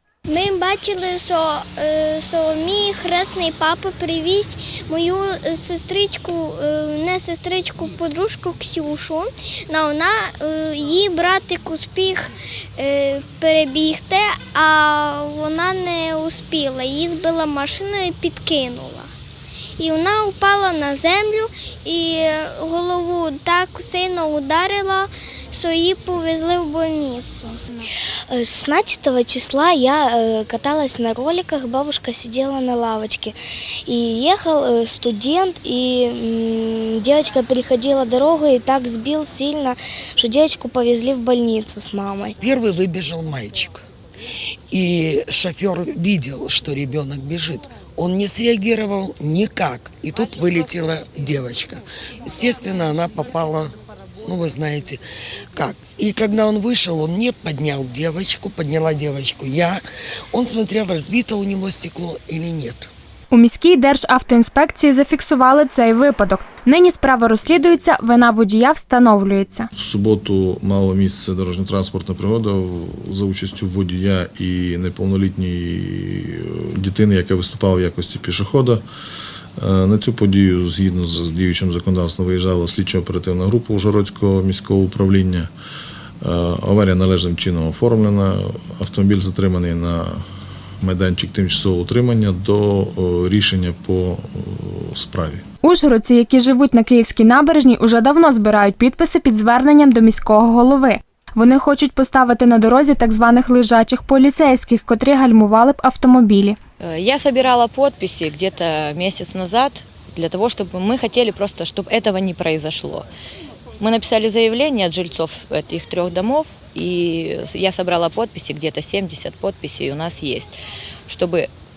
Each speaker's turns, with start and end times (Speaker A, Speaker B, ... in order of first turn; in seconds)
Speaker A: 0.3-19.1, 19.8-27.6
Speaker B: 28.3-42.3
Speaker C: 42.4-43.8, 44.7-55.0, 55.5-62.9
Speaker D: 63.3-69.7, 95.6-106.6
Speaker E: 69.8-78.8, 79.6-85.5, 86.2-90.2, 90.8-95.4
Speaker F: 106.8-113.0, 113.8-120.5, 121.1-121.5